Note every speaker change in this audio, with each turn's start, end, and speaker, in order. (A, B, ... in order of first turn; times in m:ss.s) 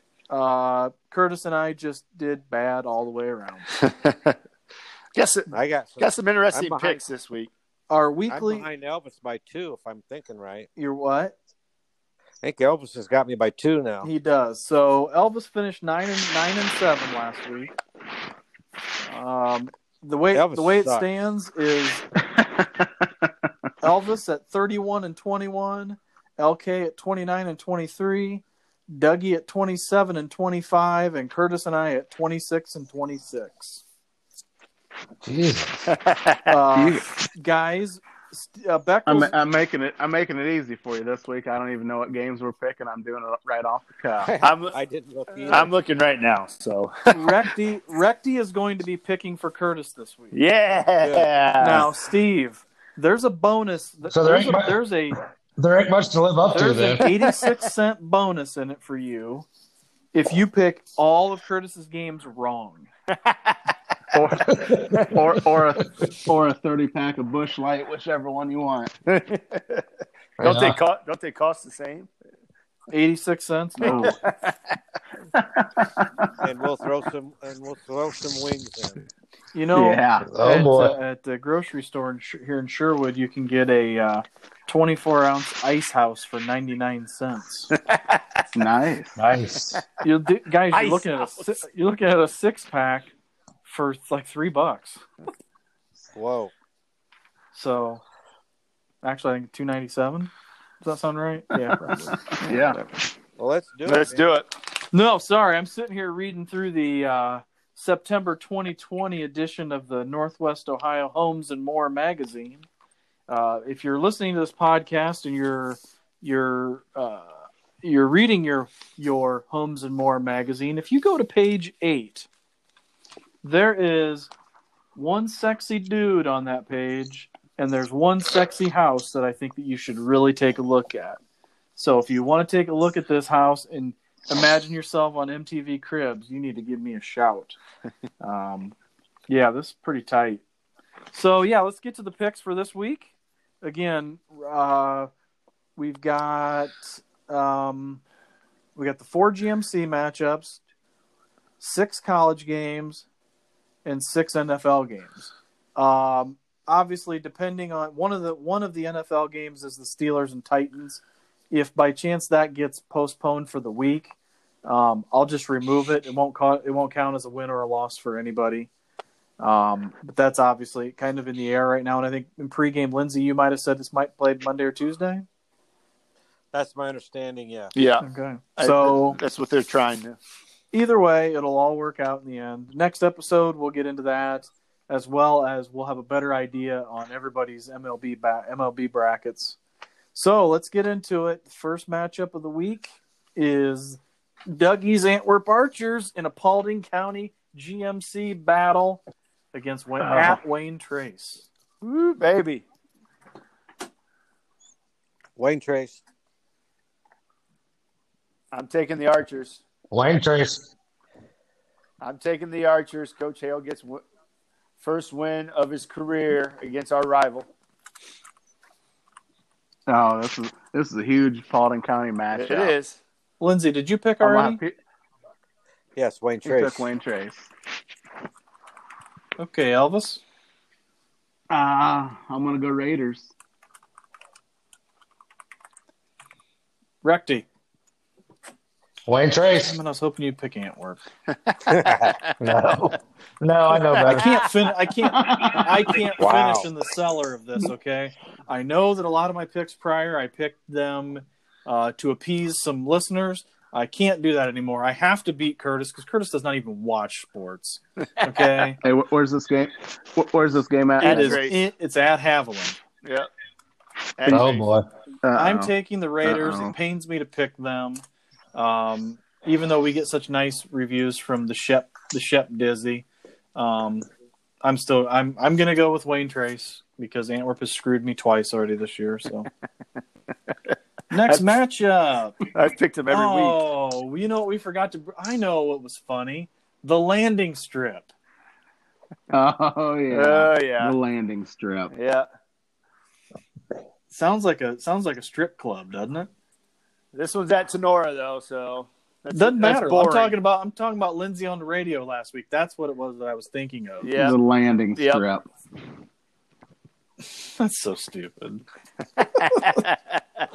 0:00.3-0:03.6 A
0:03.7-0:04.4 B
0:05.1-0:07.5 B
0:05.5-0:07.0 C
0:07.9-0:08.7 A
0:08.3-0:10.7 C
0:10.8-0:11.3 A
0:12.4-0:14.1 C
0:14.0-0:17.7 A
0:19.1-0:22.0 A
0:20.3-0:21.1 C
0:22.3-0:23.3 D
0:23.8-0:33.8 A
0:35.2-0:35.9 E
0:35.9-0:36.6 B
0:36.5-0:39.3 A
0:36.7-0:37.1 D
0:39.0-0:44.3 D
0:44.2-0:45.7 C
0:44.4-0:44.8 B
0:45.5-0:47.3 B
0:47.1-0:50.4 A
0:50.3-0:51.9 B
0:51.0-0:51.3 C
0:51.6-0:55.2 A
0:54.1-0:54.8 E
0:55.6-0:57.1 E
0:56.5-0:59.4 A
0:57.1-0:57.5 B
1:00.1-1:02.9 A
1:03.2-1:03.6 B
1:04.1-1:08.9 D
1:04.5-1:05.0 E
1:09.1-1:09.8 B
1:10.4-1:10.8 E
1:10.4-1:12.1 B
1:12.9-1:14.0 A
1:13.8-1:14.5 B
1:13.8-1:14.2 D
1:15.3-1:16.3 D
1:16.4-1:19.0 C
1:19.5-1:27.7 A
1:19.7-1:20.3 D
1:20.2-1:21.0 E
1:27.8-1:28.4 B
1:28.5-1:29.2 D
1:29.2-1:29.8 E
1:30.0-1:33.1 A
1:30.7-1:31.6 B
1:33.6-1:35.0 A
1:36.1-1:36.5 C
1:37.5-1:38.0 A
1:39.0-1:40.3 A
1:40.8-1:41.7 A
1:41.7-1:42.8 D
1:43.4-1:44.2 C
1:43.8-1:44.5 B
1:44.9-1:52.6 A
1:53.3-2:02.3 A
2:03.4-2:04.3 A
2:05.0-2:11.2 A
2:11.8-2:17.6 A
2:18.2-2:18.7 A
2:19.3-2:20.4 A
2:21.1-2:23.1 A
2:23.6-2:25.1 A
2:25.8-2:28.0 A
2:28.8-2:30.6 A
2:31.6-2:33.0 A
2:33.8-2:44.1 A
2:44.6-2:48.7 A
2:49.4-2:55.2 A
2:56.5-2:57.7 C
2:57.7-3:00.2 B
2:58.0-2:59.2 A
3:00.7-3:09.6 A
3:10.1-3:14.0 A
3:14.5-3:19.0 A
3:19.5-3:21.5 A
3:20.0-3:20.4 D
3:21.8-3:22.6 B
3:25.4-3:26.0 C
3:28.5-3:29.6 B
3:29.9-3:30.7 E
3:32.0-3:34.0 B
3:34.8-3:37.5 B
3:39.9-3:42.8 D
3:42.3-3:43.0 B
3:43.4-3:44.6 A
3:44.2-3:44.7 D
3:46.0-3:46.9 C
3:46.4-3:47.5 D
3:49.4-3:50.2 A
3:51.5-3:53.3 D
3:57.0-3:57.4 A
3:59.0-3:59.8 E
3:59.6-4:01.0 A
4:01.5-4:02.4 B
4:01.7-4:02.1 C
4:02.4-4:04.4 E
4:03.7-4:04.7 B
4:04.1-4:18.8 A
4:05.0-4:05.9 D
4:06.2-4:06.7 C
4:18.3-4:18.7 B
4:18.8-4:21.4 D
4:21.0-4:21.6 B
4:21.0-4:22.8 A
4:23.0-4:23.3 B
4:24.2-4:24.7 B
4:24.3-4:24.8 E
4:25.2-4:26.8 D
4:25.4-4:28.0 A
4:28.5-4:34.1 A
4:34.6-4:39.5 A
4:41.1-4:42.4 A
4:42.5-4:43.6 B
4:43.1-4:48.1 A
4:49.3-4:51.9 D
4:50.1-4:51.0 B
4:51.9-4:52.3 B
4:54.1-4:56.3 A
4:57.1-5:00.4 B
4:59.3-5:04.1 A
5:04.0-5:04.4 B
5:04.2-5:05.4 D
5:05.0-5:05.2 B
5:07.6-5:08.6 A
5:09.2-5:10.2 B
5:09.4-5:09.8 A